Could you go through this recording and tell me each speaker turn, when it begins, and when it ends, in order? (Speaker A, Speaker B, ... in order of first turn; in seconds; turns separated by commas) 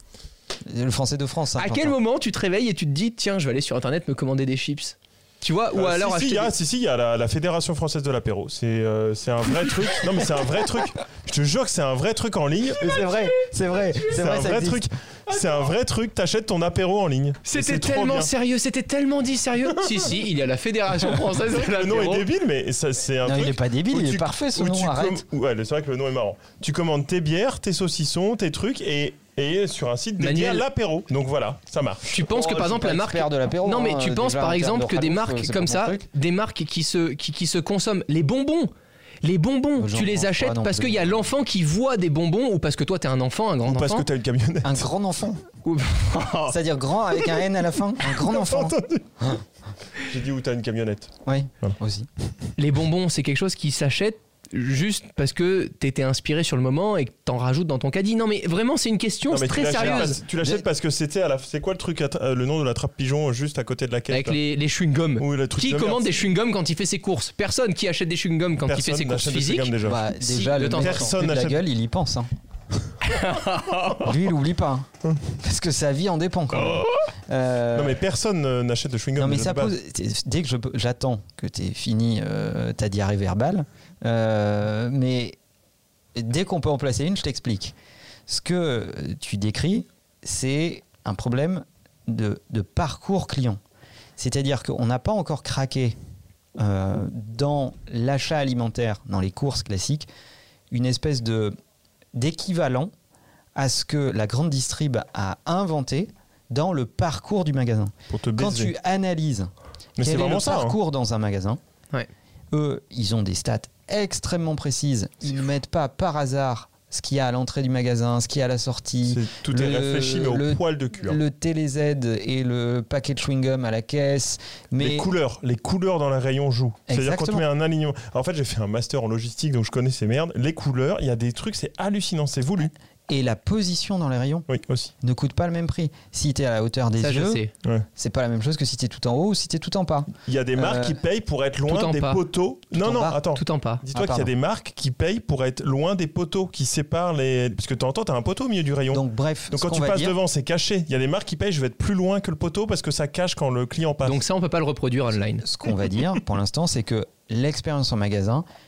Speaker A: 0.6-1.9, Speaker B: 1.6-6.5, Speaker C: 5.7-13.0, Speaker A: 12.8-14.9, Speaker C: 14.1-18.3, Speaker B: 17.4-22.2, Speaker C: 21.1-32.2, Speaker A: 23.2-25.2, Speaker B: 30.2-30.6, Speaker B: 32.0-38.7, Speaker A: 32.2-36.1, Speaker B: 39.2-44.1, Speaker A: 39.8-41.1, Speaker C: 43.6-44.8, Speaker A: 44.6-45.4, Speaker B: 45.6-46.5, Speaker A: 46.5-49.4, Speaker C: 48.0-49.3, Speaker C: 50.0-51.8, Speaker A: 51.2-52.1, Speaker B: 52.6-60.2, Speaker C: 59.3-64.4, Speaker A: 59.7-60.6, Speaker B: 64.1-71.1, Speaker C: 65.2-66.2, Speaker C: 68.6-70.0, Speaker A: 69.8-72.3, Speaker C: 70.8-71.6, Speaker B: 73.0-74.1, Speaker A: 74.0-78.0, Speaker C: 77.7-79.7, Speaker A: 79.2-85.4, Speaker A: 86.1-87.7, Speaker A: 88.3-93.6, Speaker A: 94.2-96.0, Speaker A: 96.6-100.1, Speaker A: 100.7-101.5, Speaker A: 102.1-102.9, Speaker A: 103.5-111.6, Speaker C: 108.1-108.7, Speaker C: 110.0-110.7, Speaker A: 112.5-125.1, Speaker C: 119.1-121.2, Speaker C: 124.8-132.7, Speaker A: 126.9-127.4, Speaker A: 133.1-134.5, Speaker C: 134.5-134.9, Speaker A: 135.0-137.4, Speaker B: 137.0-137.5, Speaker A: 137.9-141.0, Speaker C: 140.2-154.2, Speaker B: 141.7-142.2, Speaker A: 142.7-143.2, Speaker B: 143.3-143.8, Speaker A: 143.9-144.3, Speaker A: 148.9-150.2, Speaker B: 154.0-155.4, Speaker A: 155.4-158.4